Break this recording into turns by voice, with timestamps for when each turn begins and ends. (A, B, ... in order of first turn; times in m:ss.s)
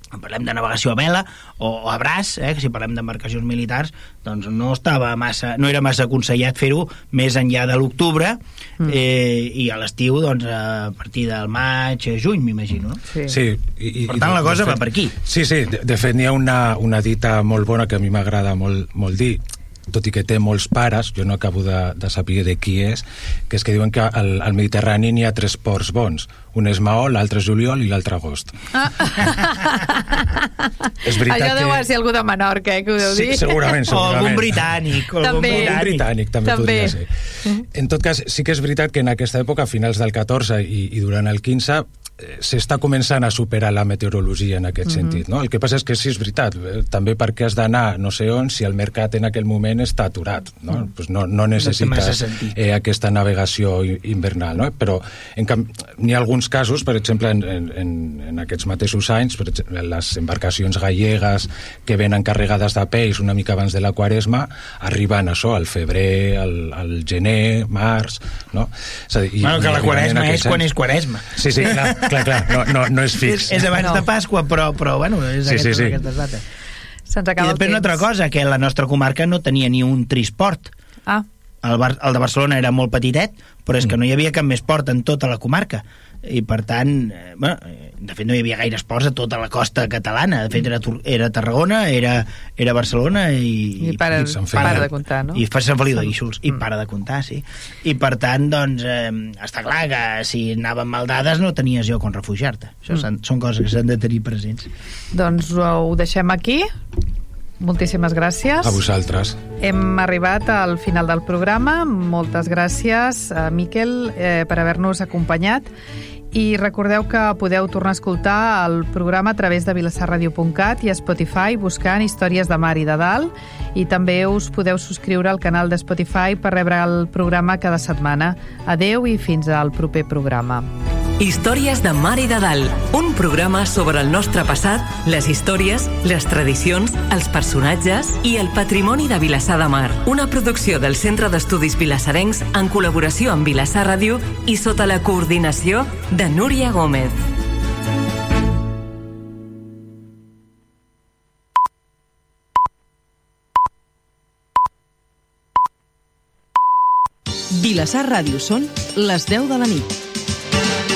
0:00.1-0:13.0 A
0:13.1-0:13.4 B
0:13.2-0:29.3 C
0:14.1-0:15.1 A
0:28.8-0:30.4 B
0:31.0-0:31.8 C
0:31.1-0:34.2 B
0:33.0-1:10.7 C
0:33.9-0:36.1 A
0:35.2-0:35.8 B
0:36.4-0:37.6 B
0:44.9-0:45.2 B
0:51.6-0:52.6 A
1:09.4-1:16.4 A
1:11.3-1:14.0 C
1:13.8-1:14.0 B
1:15.4-1:16.0 C
1:17.1-1:18.0 B
1:17.4-1:20.7 A
1:21.6-1:44.7 A
1:33.8-1:35.4 B
1:34.1-1:34.9 C
1:45.1-1:46.7 B
1:47.6-1:48.8 B
1:48.6-1:49.4 C
1:49.6-1:55.7 B
1:56.3-2:10.7 B
2:11.2-2:27.2 D
2:37.5-2:39.9 E